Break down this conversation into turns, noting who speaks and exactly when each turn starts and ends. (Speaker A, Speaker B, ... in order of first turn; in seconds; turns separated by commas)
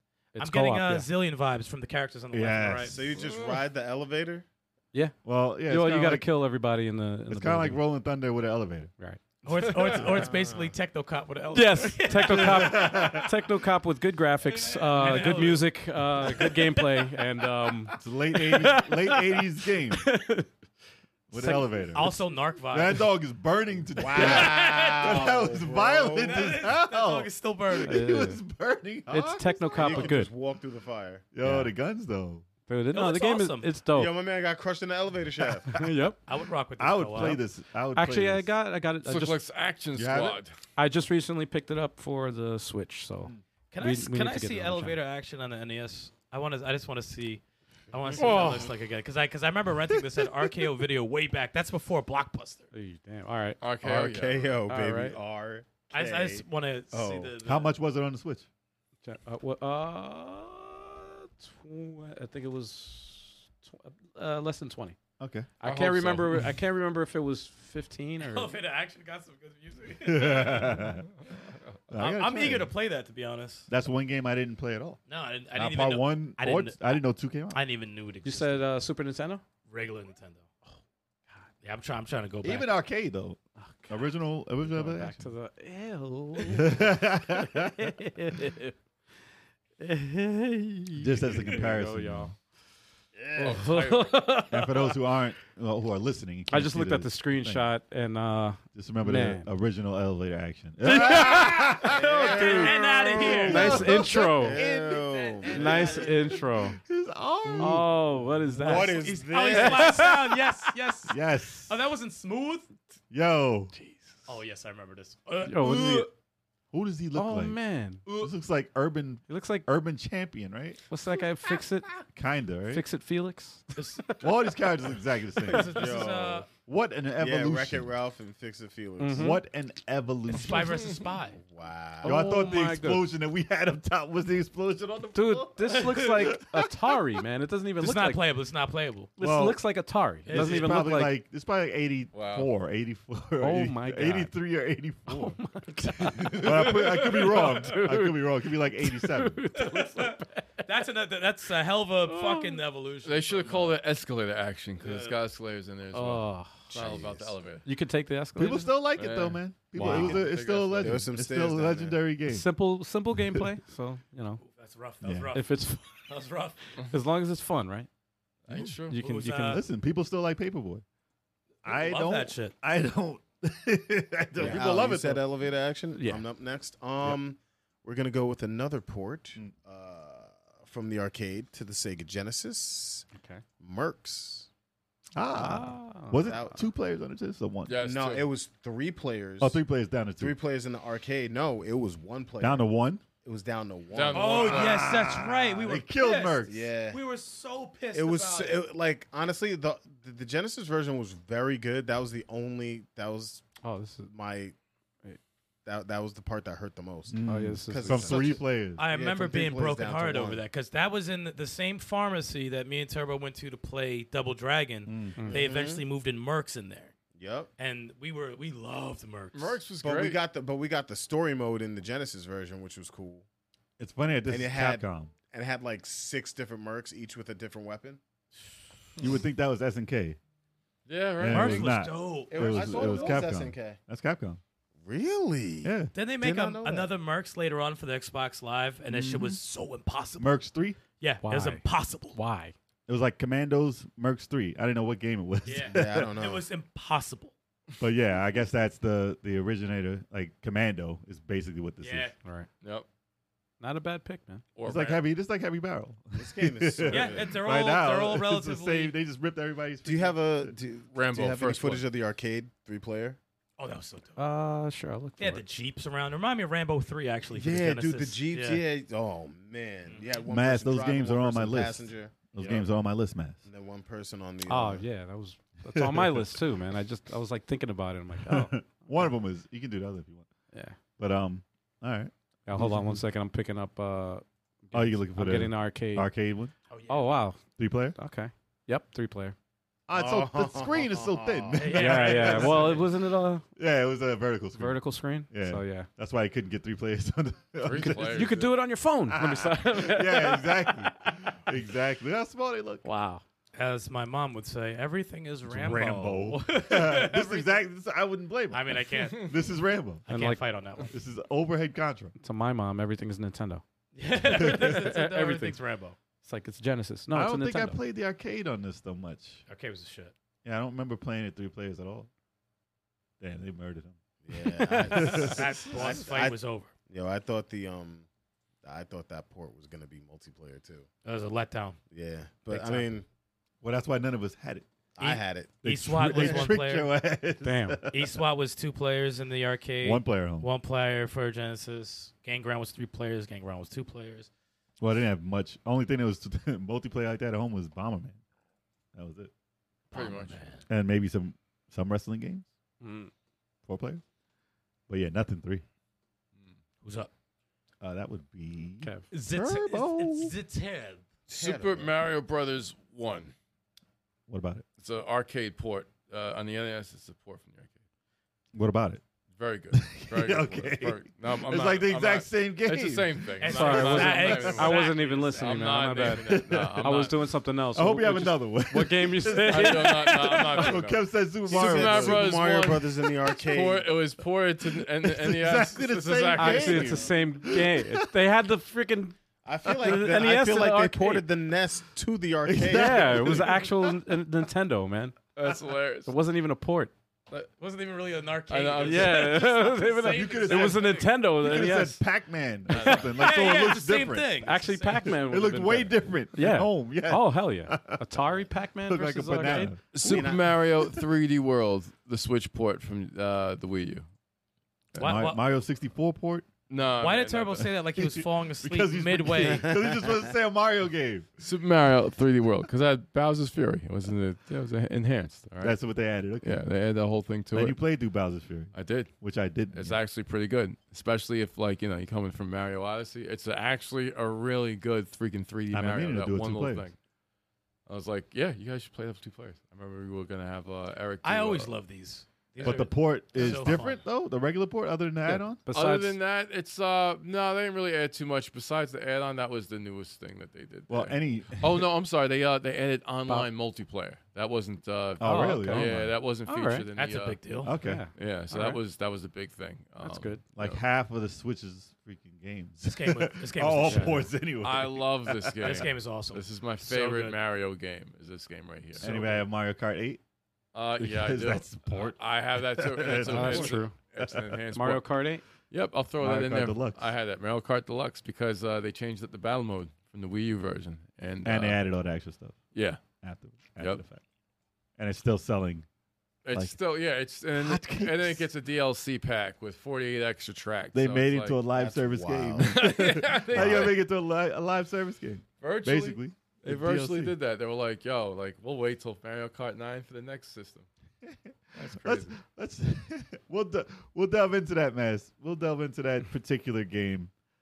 Speaker A: 0.3-1.1, Speaker B: 0.3-3.0, Speaker C: 2.3-3.0, Speaker D: 2.8-4.4, Speaker E: 3.1-3.6, Speaker C: 5.2-6.3, Speaker A: 5.7-7.8, Speaker C: 7.3-8.9, Speaker B: 9.4-13.2, Speaker E: 9.6-10.0, Speaker D: 9.8-10.7, Speaker A: 11.5-20.5, Speaker C: 12.3-13.3, Speaker B: 14.4-17.2, Speaker C: 18.0-20.1, Speaker C: 21.3-30.1, Speaker A: 21.3-22.2, Speaker B: 21.9-23.0, Speaker D: 24.0-26.6, Speaker B: 24.1-25.4, Speaker B: 26.2-28.2, Speaker A: 27.9-28.4, Speaker A: 29.1-30.3, Speaker D: 29.7-31.2, Speaker C: 31.3-32.4, Speaker A: 31.4-31.7, Speaker A: 32.7-34.2, Speaker B: 32.9-33.8, Speaker D: 33.9-35.8, Speaker A: 35.7-36.2, Speaker B: 36.2-37.4, Speaker C: 36.8-38.5, Speaker A: 37.1-37.4, Speaker A: 37.9-39.4, Speaker E: 39.0-40.5, Speaker C: 40.0-40.4, Speaker A: 40.8-45.0, Speaker B: 43.7-52.6, Speaker D: 48.1-48.7, Speaker A: 48.2-48.6, Speaker C: 49.9-50.7, Speaker A: 52.7-53.6, Speaker E: 53.6-54.5, Speaker D: 53.8-57.4, Speaker A: 54.7-55.2, Speaker B: 55.9-57.7, Speaker C: 57.4-58.5, Speaker A: 59.0-65.0, Speaker C: 65.2-65.6, Speaker A: 65.6-68.5, Speaker E: 65.6-66.4, Speaker B: 68.2-71.0, Speaker C: 70.0-71.1, Speaker C: 71.9-72.7, Speaker B: 71.9-73.7, Speaker C: 73.7-75.0, Speaker B: 75.1-76.8, Speaker C: 75.5-77.6, Speaker B: 77.5-78.7, Speaker A: 78.2-79.4, Speaker B: 79.7-80.5, Speaker B: 81.6-82.7, Speaker C: 82.4-83.4, Speaker A: 83.6-88.8, Speaker C: 83.9-85.3, Speaker C: 86.5-87.9, Speaker A: 89.8-92.3, Speaker C: 91.0-92.3, Speaker D: 93.2-93.7, Speaker E: 93.4-94.1, Speaker A: 93.4-95.0, Speaker C: 94.5-97.7, Speaker A: 96.5-99.5, Speaker C: 98.7-104.1, Speaker A: 100.8-102.6, Speaker D: 101.8-106.3, Speaker B: 102.2-106.4, Speaker A: 103.2-104.6, Speaker C: 104.7-105.0, Speaker A: 105.5-106.8, Speaker C: 106.5-108.7, Speaker D: 107.4-107.9, Speaker A: 107.6-110.6, Speaker D: 108.6-110.0, Speaker B: 108.7-112.7, Speaker C: 111.1-111.7, Speaker C: 113.1-113.7, Speaker A: 113.8-114.0, Speaker B: 114.2-116.0, Speaker A: 115.4-116.1, Speaker C: 115.6-116.1, Speaker C: 116.7-120.8, Speaker A: 117.1-118.0, Speaker A: 119.3-119.7, Speaker A: 120.9-121.9, Speaker C: 122.1-122.8, Speaker A: 122.7-124.6, Speaker B: 123.8-124.1, Speaker C: 124.2-125.9, Speaker B: 125.4-126.5, Speaker D: 125.6-126.5, Speaker C: 126.5-127.9, Speaker D: 127.2-129.4, Speaker A: 129.0-129.4, Speaker C: 129.1-131.0, Speaker B: 130.3-131.4, Speaker D: 131.3-132.3, Speaker A: 132.0-133.1, Speaker C: 132.0-136.7, Speaker A: 135.1-138.2, Speaker B: 135.8-136.3, Speaker B: 137.8-139.1, Speaker A: 139.2-141.2, Speaker C: 139.2-139.6, Speaker B: 140.2-140.9, Speaker C: 140.3-145.4, Speaker E: 142.1-142.5, Speaker A: 143.4-144.3, Speaker A: 145.1-150.7, Speaker C: 146.2-149.4, Speaker B: 149.5-153.8, Speaker A: 152.0-152.6, Speaker E: 153.0-157.7, Speaker B: 154.8-155.2, Speaker A: 155.9-156.7, Speaker D: 156.7-157.4, Speaker A: 157.6-158.7, Speaker C: 158.3-162.4, Speaker E: 158.9-161.1, Speaker A: 159.7-160.2, Speaker D: 159.8-160.2, Speaker D: 160.8-162.0, Speaker A: 162.3-164.4, Speaker B: 164.4-166.6, Speaker C: 165.0-165.3, Speaker A: 165.3-166.1, Speaker A: 166.8-167.9, Speaker E: 168.5-169.0, Speaker C: 168.5-168.8, Speaker A: 168.9-169.6, Speaker B: 168.9-169.6, Speaker C: 169.5-170.8, Speaker B: 171.6-172.5, Speaker C: 171.6-175.2, Speaker D: 174.4-183.1, Speaker A: 175.9-176.3, Speaker A: 183.1-183.4, Speaker D: 183.6-184.5, Speaker C: 185.1-187.8, Speaker A: 185.3-186.3, Speaker D: 186.2-186.7, Speaker E: 187.7-188.3, Speaker D: 187.8-189.6, Speaker C: 189.4-190.4, Speaker D: 190.2-192.7, Speaker C: 192.4-193.0, Speaker D: 193.2-194.7, Speaker E: 193.9-194.9, Speaker B: 194.1-198.6, Speaker C: 194.5-196.7, Speaker D: 196.4-197.0, Speaker D: 197.9-203.4, Speaker A: 203.6-204.1, Speaker D: 204.1-204.5, Speaker D: 205.6-210.4, Speaker C: 207.1-208.8, Speaker A: 207.2-208.3, Speaker B: 208.8-216.9, Speaker C: 214.8-215.2, Speaker A: 215.2-215.4, Speaker D: 215.3-215.8, Speaker D: 217.1-217.5, Speaker B: 217.6-219.6, Speaker E: 219.3-220.2, Speaker D: 219.8-223.2, Speaker C: 223.8-225.1, Speaker D: 224.3-228.0, Speaker C: 229.0-230.2, Speaker E: 230.9-231.8, Speaker C: 231.2-234.4, Speaker B: 231.3-233.2, Speaker D: 232.3-233.8, Speaker D: 234.8-236.9, Speaker C: 235.6-235.9, Speaker B: 235.9-240.3, Speaker C: 238.9-239.4, Speaker C: 240.2-240.8, Speaker B: 240.9-242.2, Speaker A: 241.2-242.5, Speaker C: 242.9-246.1, Speaker B: 245.4-247.3, Speaker D: 245.7-246.4, Speaker C: 247.8-252.1, Speaker B: 251.8-252.1, Speaker A: 253.6-254.4, Speaker E: 254.6-255.0, Speaker C: 254.6-260.5, Speaker D: 256.2-257.4, Speaker B: 256.9-258.9, Speaker D: 259.8-263.2, Speaker E: 260.9-261.9, Speaker B: 263.6-264.2, Speaker A: 264.1-265.4, Speaker B: 265.2-268.6, Speaker D: 267.4-272.7, Speaker C: 267.6-267.8, Speaker C: 270.3-273.4, Speaker D: 273.4-274.9, Speaker A: 274.5-279.1, Speaker C: 275.7-276.4, Speaker C: 278.2-280.3, Speaker A: 280.5-280.8, Speaker C: 281.0-283.0, Speaker A: 282.4-286.1, Speaker C: 284.7-286.5, Speaker B: 286.7-287.2, Speaker A: 286.9-287.4, Speaker C: 287.6-288.0, Speaker A: 287.9-289.4, Speaker C: 289.9-292.9, Speaker D: 289.9-291.9, Speaker B: 291.5-292.9, Speaker A: 291.7-293.4, Speaker C: 293.6-298.3, Speaker A: 294.6-295.9, Speaker E: 297.6-298.5, Speaker A: 297.8-301.1, Speaker C: 299.1-302.9, Speaker A: 302.8-303.2, Speaker B: 303.5-307.6, Speaker C: 305.5-310.1, Speaker B: 308.5-309.4, Speaker B: 310.1-310.9, Speaker A: 310.1-310.4, Speaker C: 310.9-312.1, Speaker A: 312.2-313.6, Speaker B: 313.9-316.0, Speaker A: 314.2-315.6, Speaker C: 314.4-314.7, Speaker A: 316.2-317.8, Speaker C: 317.1-319.4, Speaker B: 319.5-320.1, Speaker C: 320.4-322.1, Speaker C: 323.2-324.0, Speaker D: 324.2-328.1, Speaker A: 324.6-325.1, Speaker C: 324.9-325.6, Speaker B: 324.9-326.7, Speaker D: 328.6-330.9, Speaker B: 331.0-331.8, Speaker D: 331.9-333.0, Speaker B: 332.5-332.9, Speaker C: 333.6-334.6, Speaker D: 335.0-336.5, Speaker B: 335.0-336.9, Speaker C: 335.6-338.2, Speaker A: 337.4-337.8, Speaker B: 337.9-344.3, Speaker C: 339.8-340.5, Speaker C: 344.8-348.2, Speaker C: 348.9-349.3, Speaker E: 349.9-350.4, Speaker B: 349.9-350.6, Speaker C: 350.7-352.4, Speaker A: 352.8-353.1, Speaker C: 353.6-354.0, Speaker C: 354.9-355.6, Speaker B: 356.8-357.1, Speaker C: 357.8-360.3, Speaker A: 358.8-359.1, Speaker B: 359.1-361.0, Speaker D: 361.3-361.9, Speaker E: 361.3-363.3, Speaker C: 364.3-364.6, Speaker E: 364.8-367.8, Speaker C: 368.5-369.0, Speaker E: 369.4-377.1, Speaker C: 369.7-373.5, Speaker B: 373.4-375.8, Speaker A: 373.4-380.7, Speaker C: 376.2-377.1, Speaker C: 377.7-382.2, Speaker E: 379.5-387.1, Speaker D: 381.5-383.9, Speaker C: 384.8-388.1, Speaker A: 386.3-391.2, Speaker D: 389.4-393.4, Speaker C: 389.6-390.1, Speaker C: 392.4-394.0, Speaker A: 392.6-395.2, Speaker E: 395.4-396.1, Speaker A: 396.1-396.9, Speaker B: 397.5-401.2, Speaker E: 398.5-399.4, Speaker A: 398.8-402.0, Speaker C: 400.0-404.4, Speaker E: 402.7-403.1, Speaker B: 402.9-405.1, Speaker A: 404.4-409.8, Speaker C: 405.0-411.1, Speaker E: 409.9-414.1, Speaker D: 409.9-410.5, Speaker B: 414.9-415.4, Speaker C: 414.9-416.5, Speaker E: 416.7-417.7, Speaker B: 417.0-419.8, Speaker C: 417.9-421.3, Speaker D: 419.7-420.2, Speaker E: 421.4-425.8, Speaker C: 425.6-426.6, Speaker E: 426.4-427.8, Speaker C: 427.5-430.0, Speaker E: 428.7-429.1, Speaker E: 429.7-436.9, Speaker C: 435.7-436.9, Speaker E: 437.9-441.7, Speaker B: 441.2-444.0, Speaker C: 442.6-445.6, Speaker E: 443.4-443.7, Speaker A: 445.3-446.2, Speaker E: 445.7-457.4, Speaker C: 450.9-451.9, Speaker C: 455.2-456.1, Speaker A: 455.2-456.9, Speaker B: 456.9-457.7, Speaker C: 457.6-458.0, Speaker A: 457.7-458.8, Speaker E: 458.1-460.8, Speaker A: 460.0-460.4, Speaker C: 460.5-465.9, Speaker B: 462.8-464.3, Speaker A: 463.8-464.2, Speaker E: 464.6-469.1, Speaker B: 465.6-467.4, Speaker C: 469.0-470.2, Speaker A: 469.0-469.3, Speaker E: 470.7-475.1, Speaker C: 471.0-474.6, Speaker A: 473.2-473.9, Speaker A: 474.7-475.4, Speaker E: 475.7-481.8, Speaker C: 476.2-477.1, Speaker C: 481.4-482.6, Speaker E: 482.7-483.0, Speaker C: 483.2-484.2, Speaker C: 485.0-485.9, Speaker E: 486.4-491.6, Speaker C: 487.5-488.4, Speaker C: 490.9-497.4, Speaker D: 491.7-493.0, Speaker E: 492.6-494.0, Speaker D: 493.5-493.9, Speaker E: 495.6-500.9, Speaker C: 501.2-507.3, Speaker E: 501.7-502.4